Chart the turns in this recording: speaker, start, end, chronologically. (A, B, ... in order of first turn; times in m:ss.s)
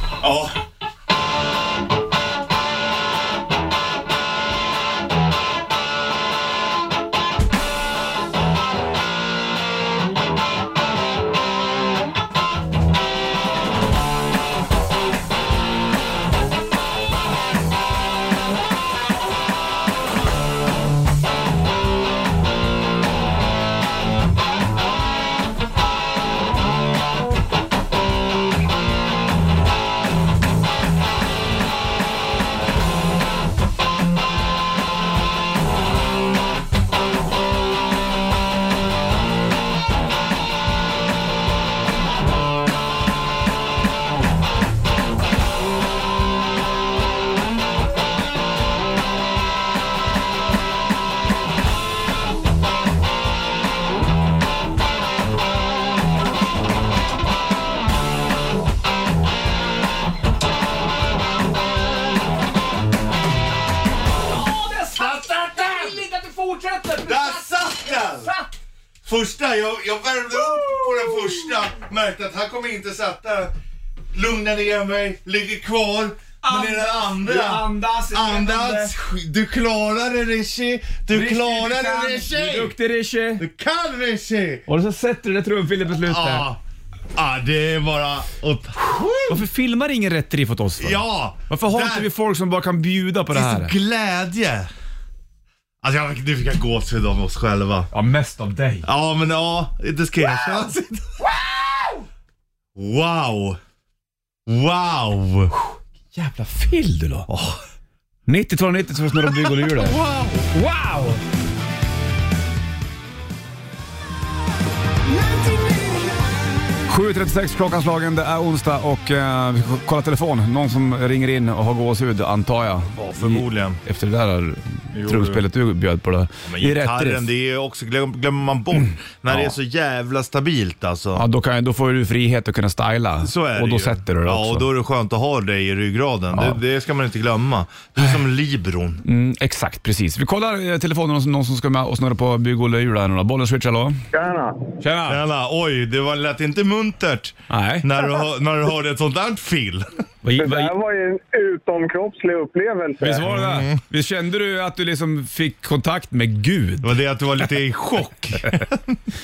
0:00.2-0:00.6 A
1:04.3-1:08.5 B
1:04.9-1:06.0 A
1:07.0-1:08.3 A
1:09.0-1:13.5 A
1:10.3-1:11.6 B
1:14.1-1:22.8 A
1:16.4-1:18.9 B
1:21.1-1:23.4 B
1:23.4-1:24.6 A
1:24.7-1:26.5 B
1:26.0-1:26.6 A
1:27.1-1:29.4 A
1:29.3-1:33.7 B
1:30.8-1:32.1 A
1:33.3-1:34.7 A
1:35.8-1:37.9 A
1:37.9-1:38.9 B
1:38.8-1:41.2 A
1:41.2-1:42.0 B
1:42.8-1:43.6 A
1:44.4-1:45.5 A
1:46.1-1:47.3 B
1:47.3-1:47.6 A
1:48.3-1:50.0 B
1:49.2-1:50.5 A
1:50.5-1:51.2 B
1:56.8-2:07.2 B
2:03.0-2:03.8 A
2:04.9-2:05.4 A
2:06.4-2:11.2 A
2:11.1-2:14.7 B
2:13.2-2:19.0 A
2:16.3-2:16.6 B
2:19.0-2:24.0 B
2:24.1-2:24.7 C
2:24.8-2:25.2 B
2:25.1-2:29.9 A
2:27.5-2:27.9 B
2:30.2-2:30.7 B
2:30.4-2:33.2 C
2:33.0-2:36.9 B
2:33.2-2:33.8 A
2:36.8-2:39.0 A